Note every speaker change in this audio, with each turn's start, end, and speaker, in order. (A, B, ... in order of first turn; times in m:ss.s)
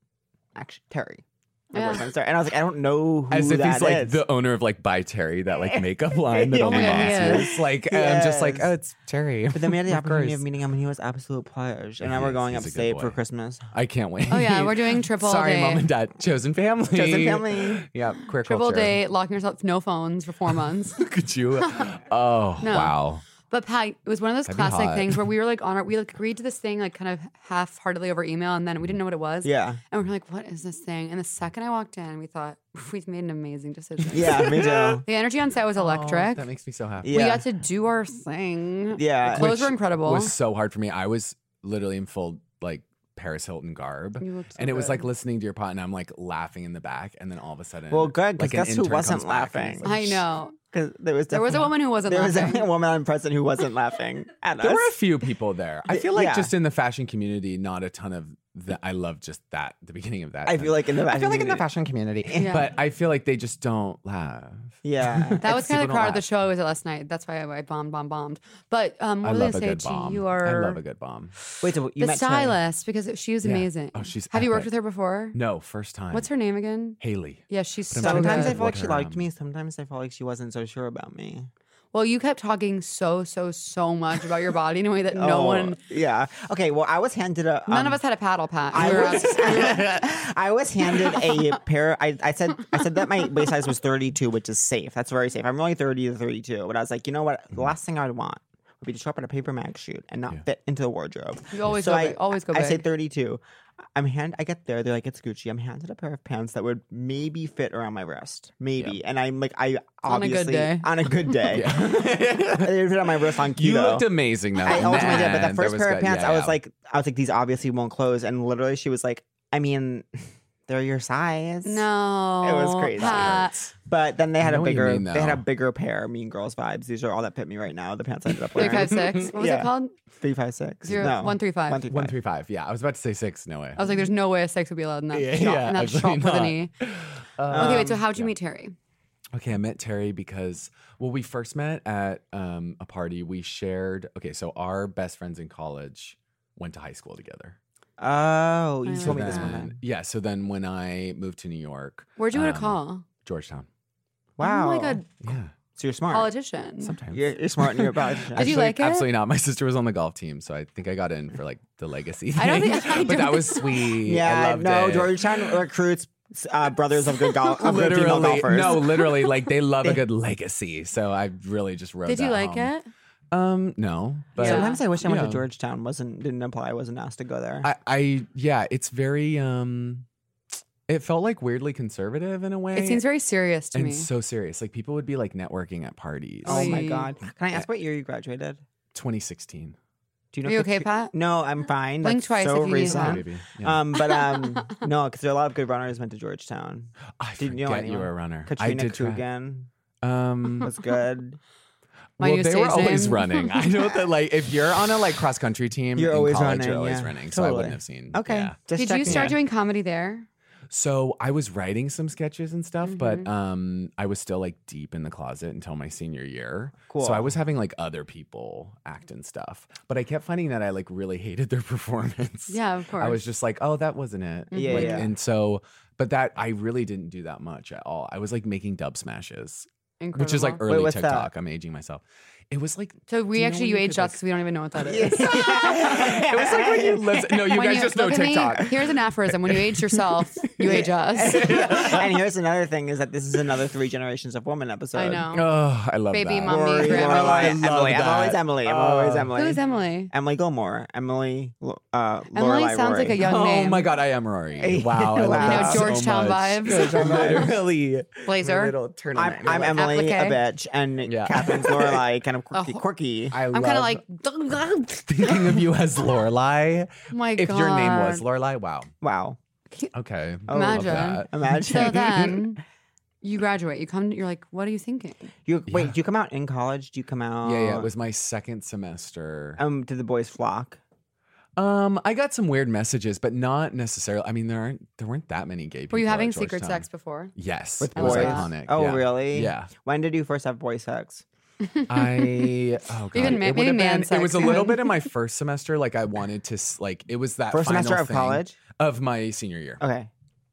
0:00.5-0:04.2 A
0:01.7-0:02.0 B
0:03.3-0:10.4 C
0:05.6-0:08.7 A
0:06.6-0:07.5 B
0:09.5-0:13.7 A
0:12.0-0:13.2 C
0:13.7-0:19.0 C
0:14.3-0:15.8 B
0:16.9-0:17.9 A
0:18.4-0:21.0 B
0:21.0-0:23.2 C
0:21.6-0:21.9 B
0:22.6-0:36.4 B
0:24.4-0:25.2 C
0:29.4-0:29.8 A
0:34.1-0:35.0 A
0:34.2-0:34.7 C
0:35.8-0:37.2 C
0:37.0-0:37.4 A
0:37.1-0:40.3 B
0:39.0-0:39.6 A
0:39.3-0:50.2 C
0:44.2-0:45.1 B
0:47.9-0:54.9 A
0:49.8-0:50.5 B
0:51.3-0:52.6 B
0:54.6-1:06.2 C
0:55.9-0:56.5 A
1:00.4-1:01.7 A
1:02.2-1:02.6 A
1:02.3-1:02.7 B
1:04.8-1:05.5 A
1:05.4-1:10.8 B
1:09.2-1:11.3 C
1:11.6-1:12.6 A
1:12.0-1:15.4 B
1:13.4-1:14.7 C
1:15.3-1:16.3 C
1:16.1-1:17.0 B
1:17.0-1:19.2 C
1:17.5-1:18.6 B
1:18.0-1:21.5 A
1:21.9-1:25.8 B
1:25.1-1:28.0 A
1:27.7-1:29.8 B
1:28.7-1:43.4 A
1:31.1-1:31.4 B
1:41.5-1:42.8 B
1:43.9-2:00.1 A
1:50.0-1:50.9 B
1:51.5-1:52.7 C
1:53.5-1:56.6 C
1:54.7-1:55.3 B
2:00.7-2:01.9 A
2:01.6-2:03.6 B
2:02.4-2:12.2 A
2:03.0-2:03.6 C
2:04.4-2:05.4 C
2:08.3-2:09.3 C
2:08.6-2:09.9 B
2:10.9-2:11.3 C
2:10.9-2:11.8 B
2:11.9-2:13.8 C
2:13.8-2:16.7 B
2:15.1-2:18.3 C
2:17.5-2:18.0 A
2:17.6-2:18.7 B
2:19.3-2:27.6 C
2:28.0-2:29.8 A
2:28.8-2:29.6 B
2:29.0-2:33.7 C
2:32.2-2:33.0 B
2:34.4-2:35.0 A
2:34.4-2:35.0 B
2:35.2-2:35.5 C
2:35.8-2:36.3 A
2:36.1-2:37.0 B
2:36.8-2:45.5 C
2:37.1-2:38.6 A
2:38.3-2:39.1 B
2:42.4-2:43.8 B
2:44.0-2:49.2 A
2:47.3-2:52.7 C
2:52.0-2:52.9 B
2:53.3-2:55.4 C
2:54.4-2:54.8 B
2:54.4-2:57.7 A
2:57.6-3:00.0 C
3:00.9-3:03.0 C
3:02.7-3:04.1 B
3:03.7-3:06.8 C
3:06.4-3:08.6 A
3:06.4-3:07.1 B
3:08.9-3:09.8 C
3:10.3-3:19.7 A
3:10.4-3:11.1 B
3:12.0-3:13.2 B
3:12.9-3:13.8 C
3:14.2-3:14.5 B
3:17.2-3:19.2 C
3:20.0-3:20.7 C
3:20.6-3:21.4 A
3:22.2-3:29.3 C
3:22.2-3:23.5 B
3:25.9-3:29.4 A
3:28.8-3:30.3 B
3:30.7-3:54.2 C
3:32.8-3:33.3 B
3:36.9-3:37.3 A
3:42.5-3:43.2 B
3:44.5-3:45.1 B
3:44.5-3:45.1 A
3:50.0-3:50.6 B
3:50.6-3:51.3 A
3:53.1-3:56.1 B
3:54.8-3:57.4 A
3:55.0-4:02.1 C
3:57.4-4:01.5 B
4:00.6-4:05.3 A
4:04.9-4:05.5 B
4:05.3-4:09.3 C
4:06.1-4:07.6 B
4:06.4-4:13.2 A
4:09.3-4:10.1 B
4:12.3-4:13.8 B
4:13.2-4:19.8 C
4:14.6-4:15.9 A
4:15.3-4:17.5 B
4:16.6-4:17.5 A
4:18.2-4:18.7 B
4:19.1-4:23.4 A
4:19.7-4:20.4 B
4:21.0-4:22.0 C
4:22.5-4:22.8 B
4:23.3-4:24.0 C
4:23.5-4:25.6 B
4:25.1-4:28.9 C
4:27.1-4:28.2 B
4:29.0-4:29.4 A
4:29.9-4:32.3 C
4:30.5-4:32.4 A
4:30.5-4:32.6 B
4:33.2-4:35.3 B
4:35.4-4:37.9 A
4:35.7-4:35.9 C
4:37.4-4:39.6 C
4:39.6-4:40.8 A
4:41.6-4:49.7 C
4:45.9-4:47.3 B
4:47.8-4:51.2 A
4:47.9-4:48.5 B
4:51.6-4:52.5 B
4:51.9-4:59.8 C
4:53.1-4:55.0 B
4:57.5-4:58.6 A
4:59.8-5:00.1 A